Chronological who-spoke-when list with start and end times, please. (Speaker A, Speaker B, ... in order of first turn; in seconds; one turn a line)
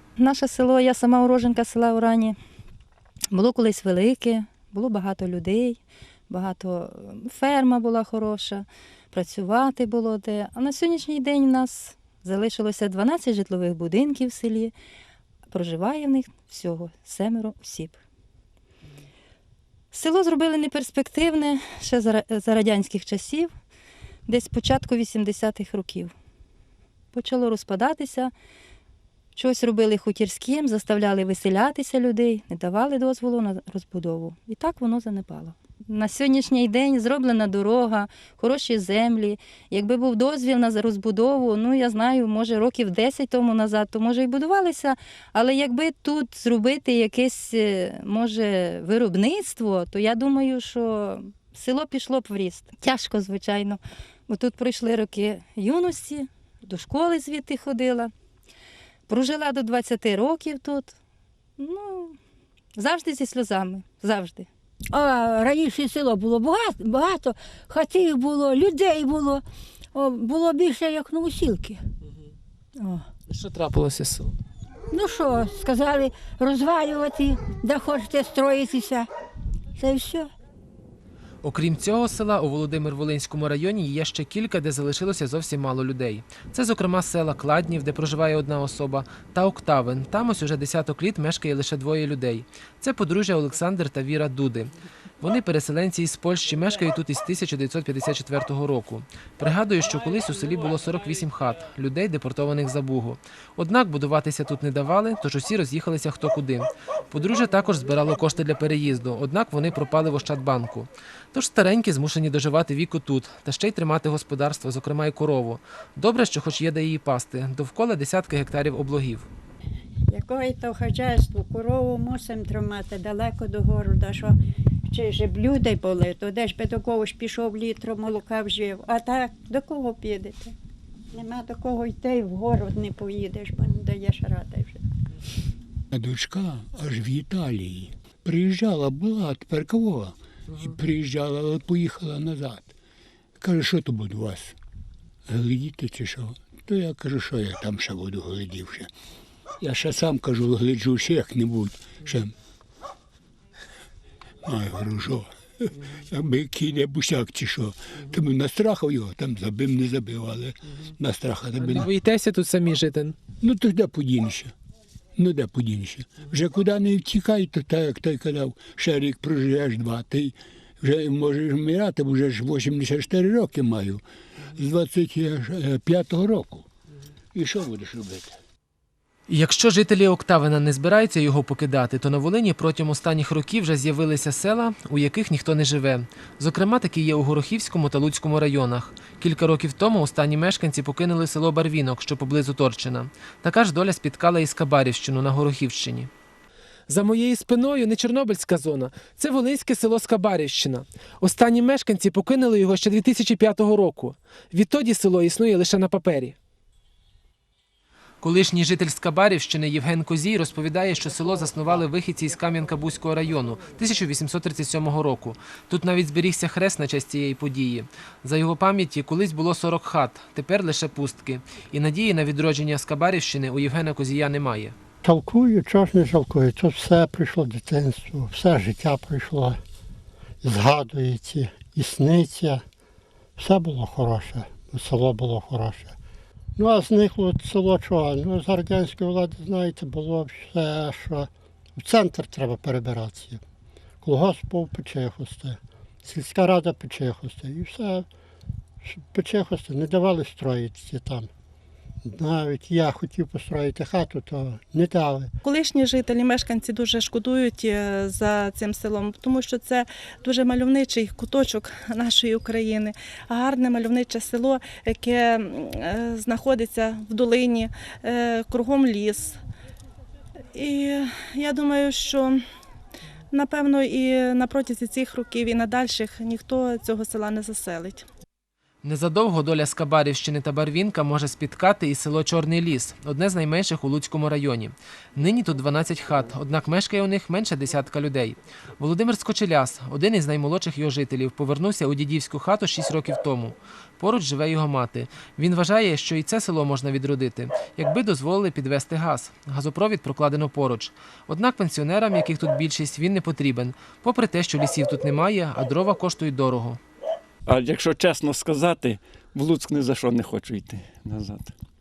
Speaker A: 0.2-2.4
Speaker A: 3.3-14.7
Speaker A: 15.5-18.0
Speaker A: 19.9-23.5
Speaker A: 24.3-26.1
Speaker A: 27.1-28.3
Speaker A: 29.4-58.1
Speaker A: 59.1-60.9
Speaker A: 61.6-62.2
Speaker A: 62.8-64.5
Speaker B: 64.9-71.8
Speaker A: 72.8-73.1
Speaker C: 73.3-74.4
Speaker B: 74.9-79.1
Speaker B: 79.8-80.3
Speaker C: 81.4-119.3
Speaker D: 120.1-124.4
Speaker D: 124.9-130.5
Speaker D: 131.1-134.8
Speaker E: 135.9-142.7
Speaker E: 143.4-144.6
Speaker E: 145.3-148.9
Speaker E: 149.6-152.3
Speaker E: 154.4-161.9
Speaker C: 161.6-163.2
Speaker E: 163.4-164.5
Speaker E: 165.2-176.7
Speaker E: 177.3-178.4
Speaker C: 179.3-196.1
Speaker C: 196.9-206.4
Speaker C: 208.2-224.8
Speaker F: 225.0-229.6
Speaker F: 230.4-232.6
Speaker F: 233.4-235.9
Speaker F: 236.6-243.4
Speaker F: 244.0-248.1
Speaker F: 248.8-251.3
Speaker F: 252.0-255.3
Speaker G: 255.4-269.3
Speaker G: 270.6-272.3
Speaker G: 273.3-278.0
Speaker C: 278.8-306.8
Speaker H: 307.5-311.5